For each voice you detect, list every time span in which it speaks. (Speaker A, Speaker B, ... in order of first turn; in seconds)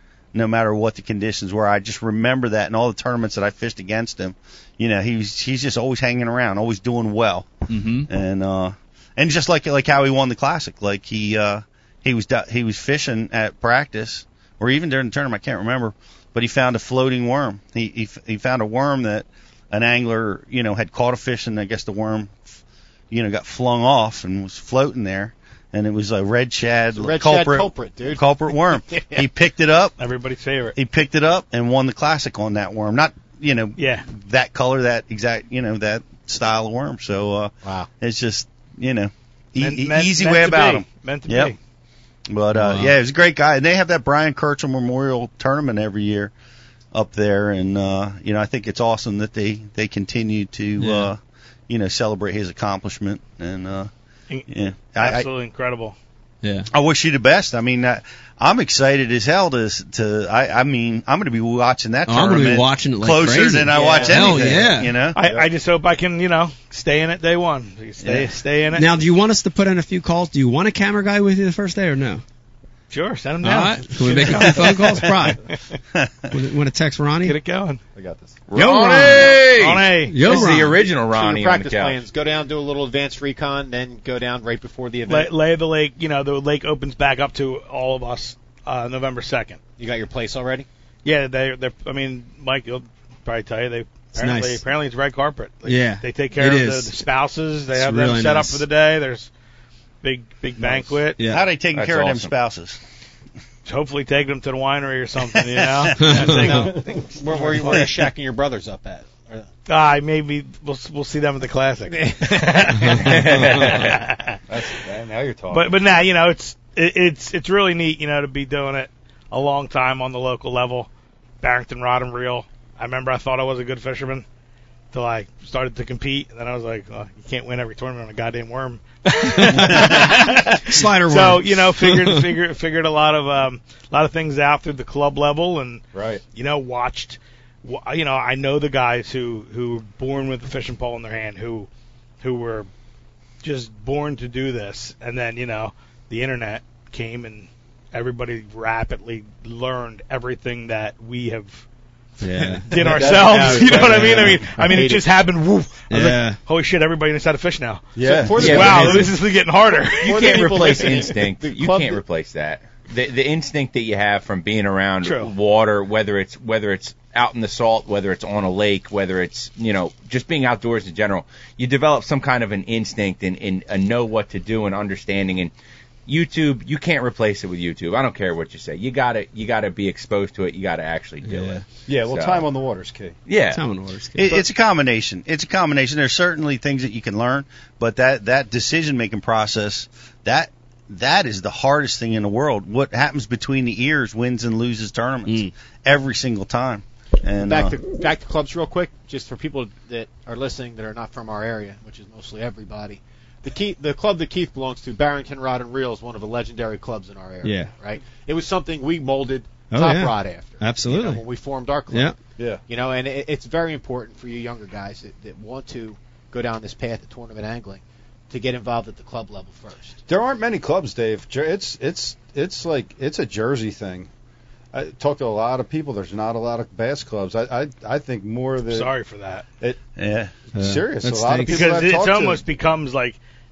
Speaker A: 0.3-22.5, 23.1-29.9, 30.8-41.5, 42.3-46.3, 46.9-53.9, 54.5-55.3, 56.7-65.2, 68.0-68.3, 76.0-76.3, 101.3-102.8, 105.4-106.1, 129.6-130.1, 184.2-197.8, 230.0-230.3
Speaker B: 7.7-8.1, 42.5-43.0, 50.8-51.1, 56.4-56.7, 62.1-65.0, 68.7-72.2, 73.4-75.4, 76.3-77.4, 78.5-79.4, 80.1-80.8, 94.2-94.6, 95.7-96.9, 97.7-98.6, 101.2-101.4, 106.0-106.4, 129.7-130.1, 130.7-132.2, 152.2-152.7, 155.9-156.4, 181.2-181.6, 183.5-184.4, 195.3-195.5, 207.4-207.7, 209.7-211.2, 211.9-212.2, 230.6-231.7
Speaker C: 26.9-28.2, 28.9-29.2, 37.6-37.9, 63.7-64.2, 81.0-85.3, 89.8-90.7, 106.2-109.5, 111.9-112.8, 152.8-155.2, 158.0-159.2, 160.0-162.0, 197.4-212.1, 212.7-220.0
Speaker D: 30.0-30.8, 33.8-34.1, 39.6-41.6, 54.3-56.0, 65.1-68.9, 72.9-75.8, 77.2-77.8, 78.6-80.4, 85.1-89.6, 91.0-99.3, 100.0-101.2, 103.7-107.9, 109.7-114.4, 115.5-120.9, 121.4-124.2, 124.9-135.8, 136.3-141.7, 142.2-142.7, 143.4-151.7, 152.4-157.9, 158.4-161.0, 165.0-165.3, 228.7-229.4, 231.5-233.2
Speaker E: 65.2-65.5, 78.0-78.4, 114.5-115.8, 135.9-136.2, 152.8-154.4, 158.0-159.1, 181.9-183.2, 220.1-224.1, 224.7-228.9, 230.5-232.4
Speaker F: 78.5-82.0, 101.8-102.3, 113.0-114.0, 158.4-159.1, 160.0-175.5, 176.1-182.5, 183.3-183.6